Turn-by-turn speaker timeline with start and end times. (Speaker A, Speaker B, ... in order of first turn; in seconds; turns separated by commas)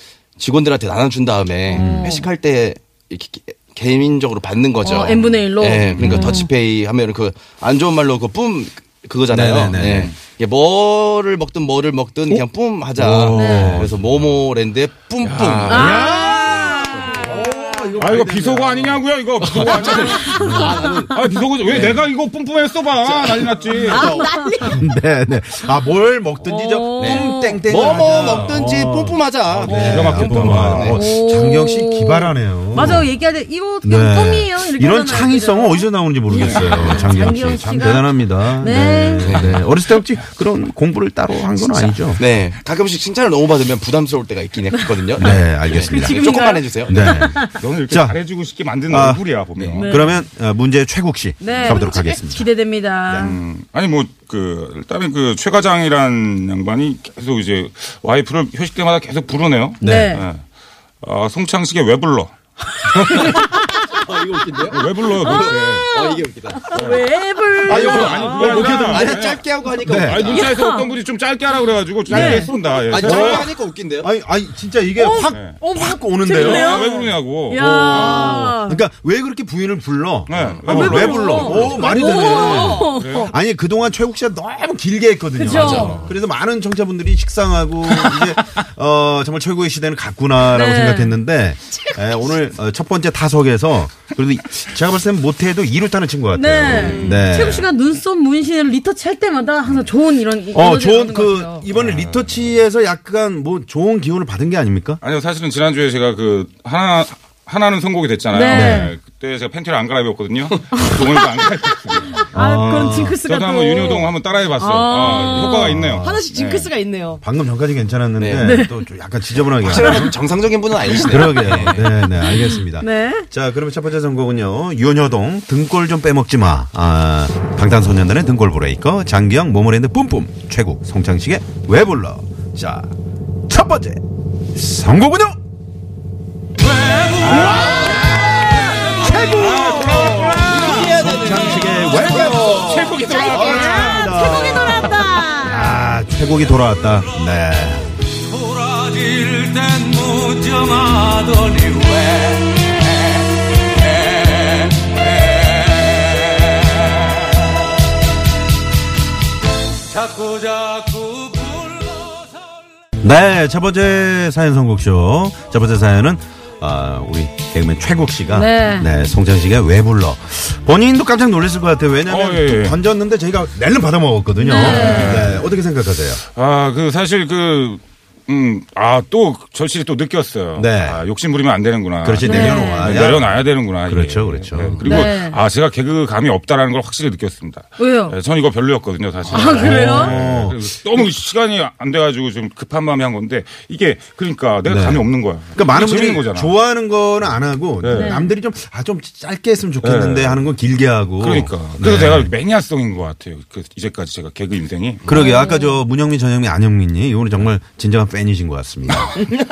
Speaker A: 0.4-17.4, Speaker B: 1.7-2.2, Speaker C: 1.7-2.1, Speaker B: 4.8-6.5, Speaker C: 6.0-6.3, Speaker C: 9.3-10.1, Speaker D: 9.8-10.1, Speaker C: 12.9-14.3, Speaker B: 13.3-13.8, Speaker D: 15.2-16.4, Speaker B: 15.7-17.2, Speaker C: 15.8-16.2, Speaker C: 17.1-19.0, Speaker D: 18.0-20.6, Speaker A: 19.4-22.0, Speaker B: 20.2-20.9, Speaker C: 20.2-20.9, Speaker D: 21.1-24.2, Speaker A: 23.0-24.3, Speaker E: 23.9-24.8, Speaker B: 24.0-24.7, Speaker C: 24.7-33.1, Speaker B: 26.4-27.6, Speaker A: 27.0-31.0, Speaker D: 28.2-28.6, Speaker D: 29.5-31.0, Speaker B: 30.9-39.4, Speaker C: 33.8-42.2, Speaker D: 36.4-37.0, Speaker A: 39.2-39.6, Speaker A: 42.2-47.2, Speaker C: 45.1-46.2, Speaker B: 45.8-47.5, Speaker C: 46.8-48.2, Speaker D: 47.5-49.9, Speaker C: 48.9-49.2, Speaker B: 49.8-50.2, Speaker C: 49.8-52.5, Speaker B: 51.4-53.3, Speaker C: 53.1-53.3, Speaker D: 53.2-60.4, Speaker C: 59.8-60.2, Speaker B: 59.8-60.2, Speaker D: 61.0-62.3, Speaker B: 62.8-64.0, Speaker A: 62.9-66.8, Speaker D: 64.7-65.9, Speaker B: 65.2-68.8, Speaker D: 66.7-67.0, Speaker A: 67.7-70.5, Speaker D: 67.7-73.5, Speaker C: 67.7-70.3, Speaker B: 70.2-70.9, Speaker C: 72.1-73.5, Speaker B: 72.1-72.5, Speaker A: 72.2-74.1, Speaker C: 74.0-77.0, Speaker B: 75.0-78.8, Speaker D: 75.3-75.6, Speaker D: 76.3-78.3, Speaker C: 77.5-97.7, Speaker D: 80.3-81.9, Speaker A: 80.3-81.7, Speaker B: 80.7-83.3, Speaker E: 81.9-82.8, Speaker D: 82.8-83.3, Speaker B: 85.3-86.0, Speaker A: 85.5-86.1, Speaker B: 90.5-91.2, Speaker E: 91.7-92.0, Speaker B: 96.3-101.6, Speaker C: 100.5-105.0, Speaker D: 101.7-102.3, Speaker D: 105.0-116.7, Speaker B: 108.3-108.9, Speaker C: 108.5-108.9, Speaker B: 112.3-115.7, Speaker C: 112.3-113.2, Speaker C: 115.4-116.2, Speaker E: 116.0-117.2, Speaker C: 117.2-120.2, Speaker A: 118.2-118.6, Speaker B: 118.4-118.8, Speaker A: 119.6-121.9, Speaker C: 120.9-132.9, Speaker B: 122.2-123.3, Speaker C: 133.5-134.0, Speaker C: 134.5-135.4, Speaker C: 137.1-147.9, Speaker D: 137.2-138.1, Speaker D: 139.1-144.1, Speaker A: 140.5-142.2, Speaker B: 142.9-145.9, Speaker F: 149.1-151.8, Speaker C: 163.0-176.2, Speaker B: 168.3-168.9, Speaker D: 172.1-172.8, Speaker B: 174.4-175.3, Speaker D: 174.5-175.4, Speaker D: 176.3-196.5, Speaker C: 180.6-181.0, Speaker C: 182.0-185.1, Speaker B: 182.2-183.0, Speaker B: 184.8-185.3, Speaker B: 187.8-188.1, Speaker C: 189.3-191.1, Speaker B: 189.3-190.1, Speaker C: 194.6-202.3, Speaker D: 197.8-198.1, Speaker B: 197.9-198.3, Speaker D: 199.8-200.5, Speaker D: 201.2-205.0, Speaker C: 205.1-209.1, Speaker B: 205.1-205.8